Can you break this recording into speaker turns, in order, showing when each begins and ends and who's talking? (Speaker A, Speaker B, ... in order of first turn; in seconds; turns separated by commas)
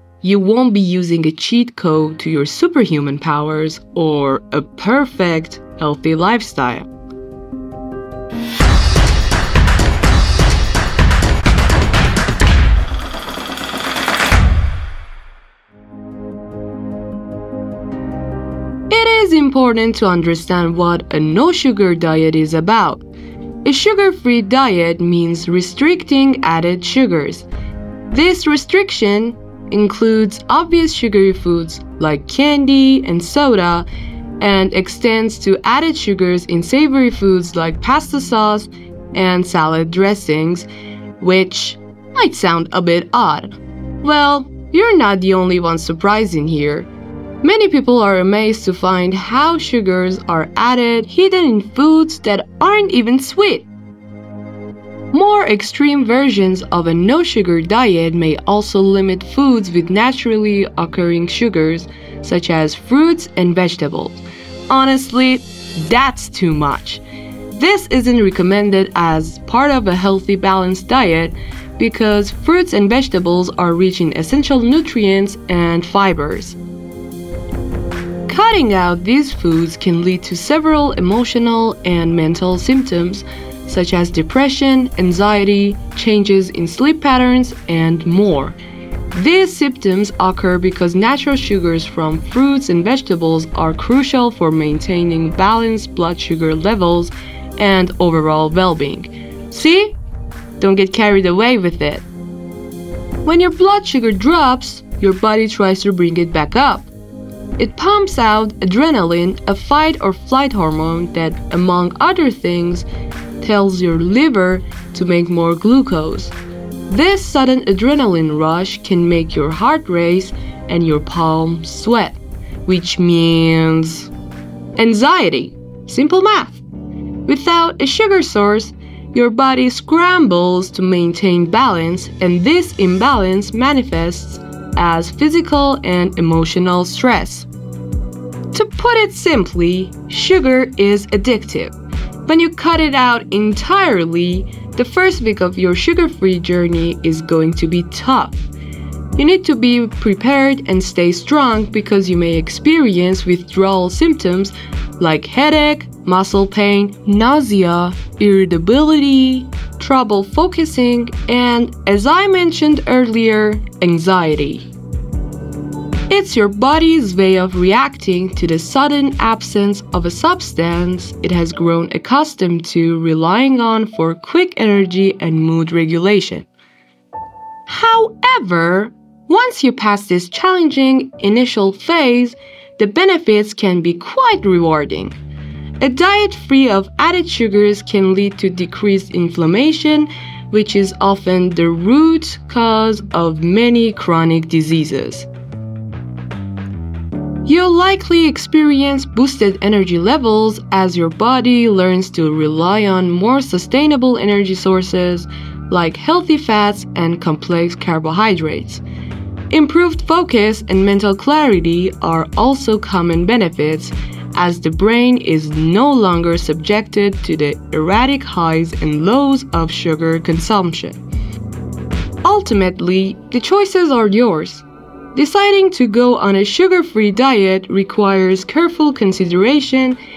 Speaker A: 0.2-6.9, Speaker A: 18.9-23.0, Speaker A: 23.6-27.5, Speaker A: 28.1-33.9, Speaker A: 34.4-40.7, Speaker A: 41.2-46.9, Speaker A: 47.4-53.7, Speaker A: 55.1-67.0, Speaker A: 67.6-76.6, Speaker A: 78.3-88.6, Speaker A: 89.1-100.0, Speaker A: 100.6-102.1, Speaker A: 103.2-106.9, Speaker A: 107.6-112.9, Speaker A: 113.4-116.3, Speaker A: 116.9-124.1, Speaker A: 124.8-126.6, Speaker A: 127.3-137.5, Speaker A: 138.5-141.7, Speaker A: 142.2-148.4, Speaker A: 149.2-164.6, Speaker A: 166.1-176.5, Speaker A: 177.7-185.2, Speaker A: 185.8-195.3, Speaker A: 197.4-208.8, Speaker A: 209.5-221.0, Speaker A: 222.2-230.0